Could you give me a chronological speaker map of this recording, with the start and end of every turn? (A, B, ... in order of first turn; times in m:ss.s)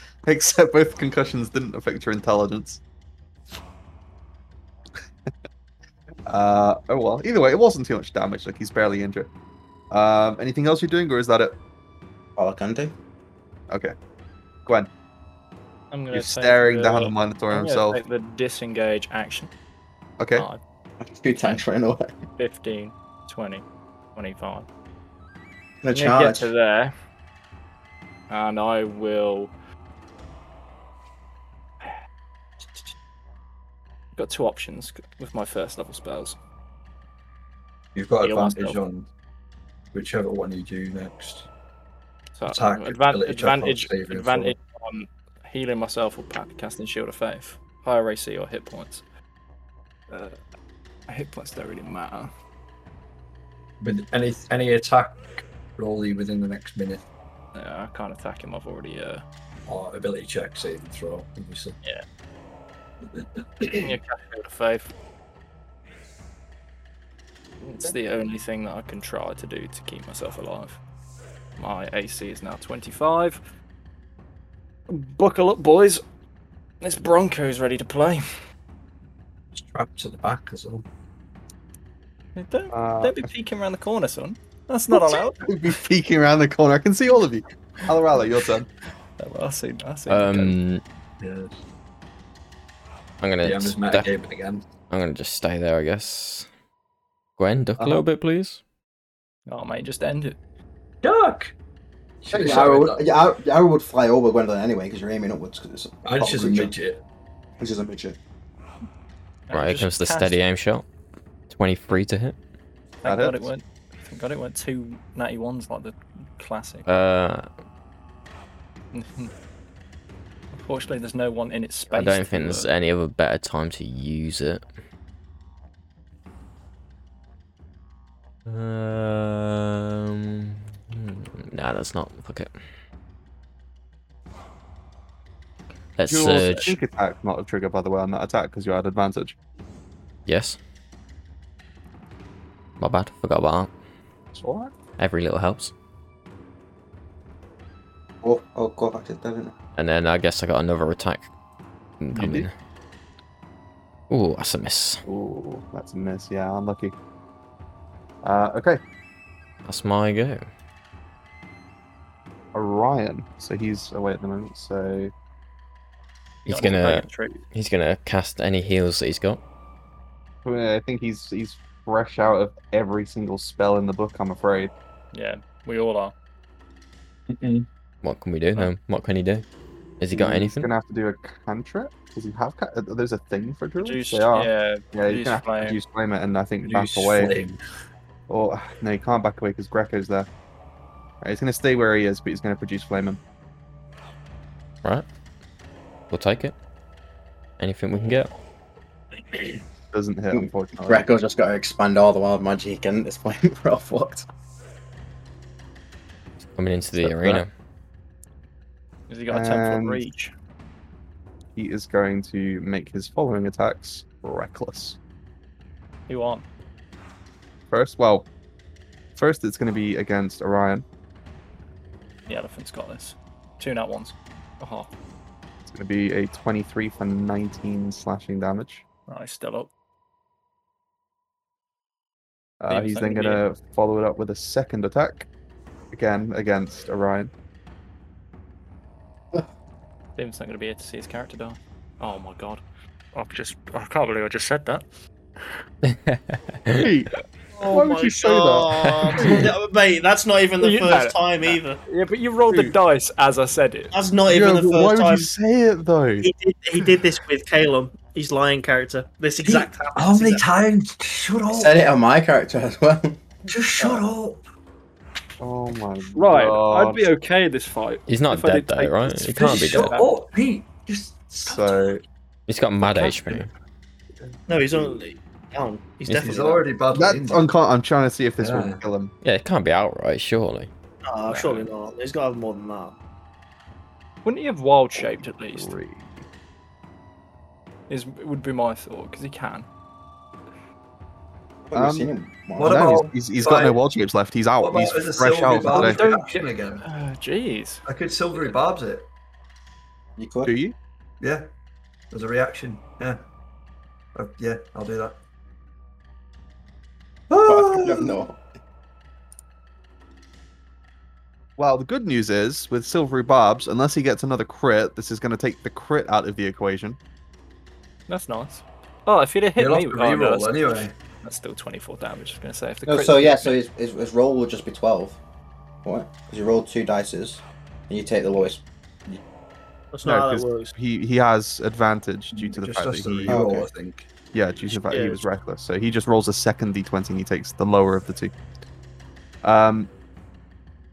0:00.2-0:02.8 A
0:06.3-0:09.3 A
0:09.9-0:11.6 A
0:12.4-0:12.9 B
0:13.7-0:13.9 A
0:15.9-0:19.5 C
0:16.1-0:18.0 A
0:20.2-0:20.4 A
0:20.3-0:20.6 C
0:21.0-0:22.2 B
0:22.4-0:24.7 C
0:25.8-0:26.5 B
0:25.9-0:26.9 C
0:28.3-0:29.5 C
0:34.2-0:36.4 C
0:37.9-0:39.1 D
0:38.2-0:38.8 C
0:39.9-0:41.5 D
0:42.4-0:49.0 C
0:42.4-0:44.5 D
0:50.1-0:50.4 C
0:51.1-0:52.3 C
0:53.8-0:57.0 D
0:57.5-0:59.2 C
0:59.7-1:01.8 D
1:03.1-1:04.0 D
1:03.8-1:04.9 C
1:07.6-1:10.8 C
1:11.6-1:13.4 C
1:14.9-1:16.0 C
1:16.8-1:18.2 C
1:19.5-1:20.8 D
1:22.4-1:25.5 C
1:22.7-1:23.3 A
1:24.9-1:28.7 A
1:29.2-1:30.6 C
1:30.1-1:30.8 E
1:31.2-1:31.6 D
1:33.2-1:34.1 E
1:33.4-1:34.6 D
1:34.9-1:36.5 E
1:37.4-1:38.6 E
1:39.5-1:40.4 C
1:41.0-1:41.5 D
1:42.2-1:43.0 D
1:42.3-1:46.7 B
1:46.0-1:47.0 D
1:47.6-1:48.2 B
1:49.5-1:50.4 C
1:49.5-1:50.8 E
1:51.5-1:52.4 E
1:53.0-1:56.8 C
1:53.0-1:53.5 A
1:56.9-1:57.5 E
1:58.9-1:59.3 C
2:00.5-2:02.7 C
2:01.9-2:04.6 E
2:08.4-2:12.6 E
2:16.0-2:16.8 E
2:16.1-2:19.4 A
2:20.2-2:20.6 E
2:22.8-2:23.7 E
2:24.3-2:24.7 A
2:25.0-2:25.7 E
2:28.2-2:29.5 B
2:29.8-2:31.3 E
2:32.0-2:32.5 E
2:32.1-2:32.4 A
2:34.1-2:35.0 E
2:35.0-2:36.9 A
2:38.2-2:38.8 A
2:39.6-2:40.4 E
2:42.5-2:45.1 A
2:46.4-2:47.4 C
2:46.5-2:49.4 E
2:50.4-2:54.7 A
2:55.1-2:56.1 C
2:57.3-2:57.7 D
2:58.0-2:59.4 E
3:00.0-3:00.7 E
3:00.1-3:07.5 A
3:03.8-3:05.8 C
3:06.6-3:07.6 D
3:08.3-3:10.3 A
3:11.2-3:13.2 A
3:16.1-3:16.5 E
3:17.6-3:18.3 E
3:19.9-3:21.1 A
3:20.3-3:24.3 B
3:26.5-3:27.5 E
3:27.0-3:27.4 A
3:29.1-3:30.3 C
3:29.3-3:30.0 A
3:31.6-3:35.0 A
3:36.1-3:36.4 C
3:37.7-3:38.3 A
3:39.2-3:40.8 A
3:42.3-3:44.9 C
3:45.6-3:48.8 A
3:49.1-3:49.7 C
3:52.6-3:55.3 A
3:52.7-3:53.4 C
3:55.9-3:57.3 A
4:00.2-4:02.6 C
4:03.1-4:04.8 C
4:05.9-4:06.9 E
4:06.7-4:09.5 A
4:07.6-4:11.8 F
4:09.0-4:09.4 E
4:10.6-4:13.9 C
4:12.5-4:12.7 A
4:13.9-4:15.3 F
4:14.3-4:16.3 A
4:16.2-4:20.4 F
4:19.5-4:19.8 C
4:19.9-4:21.7 D
4:21.5-4:23.2 B
4:23.5-4:24.4 D
4:25.4-4:27.1 A
4:26.2-4:30.1 C
4:28.1-4:29.9 E
4:29.2-4:32.0 D
4:31.3-4:32.0 A
4:32.5-4:33.5 E
4:32.8-4:33.5 D
4:34.2-4:34.9 D
4:34.5-4:36.7 F
4:36.1-4:36.3 E
4:36.1-4:37.5 D
4:36.9-4:39.1 A
4:38.4-4:38.8 D
4:39.2-4:40.7 E
4:41.1-4:43.0 F
4:41.3-4:41.7 C
4:44.2-4:45.7 C
4:45.0-4:46.2 A
4:47.9-4:49.7 C
4:51.7-4:53.0 B
4:51.7-4:56.0 A
4:52.6-4:53.8 D
4:54.6-4:56.8 D
4:55.7-4:58.6 C
4:57.8-4:59.1 D
5:00.2-5:00.5 B
5:00.4-5:00.7 A
5:01.2-5:01.5 D
5:02.1-5:03.2 D
5:04.1-5:05.2 D
5:07.3-5:08.2 D
5:07.3-5:08.4 B
5:11.6-5:17.0 A
5:18.1-5:23.6 C
5:19.6-5:20.9 D
5:22.8-5:25.2 B
5:25.8-5:29.2 B
5:29.9-5:30.7 F
5:30.0-5:33.4 A
5:32.3-5:34.1 D
5:33.3-5:33.7 B
5:34.3-5:38.3 A
5:34.7-5:35.2 F
5:39.4-5:39.9 A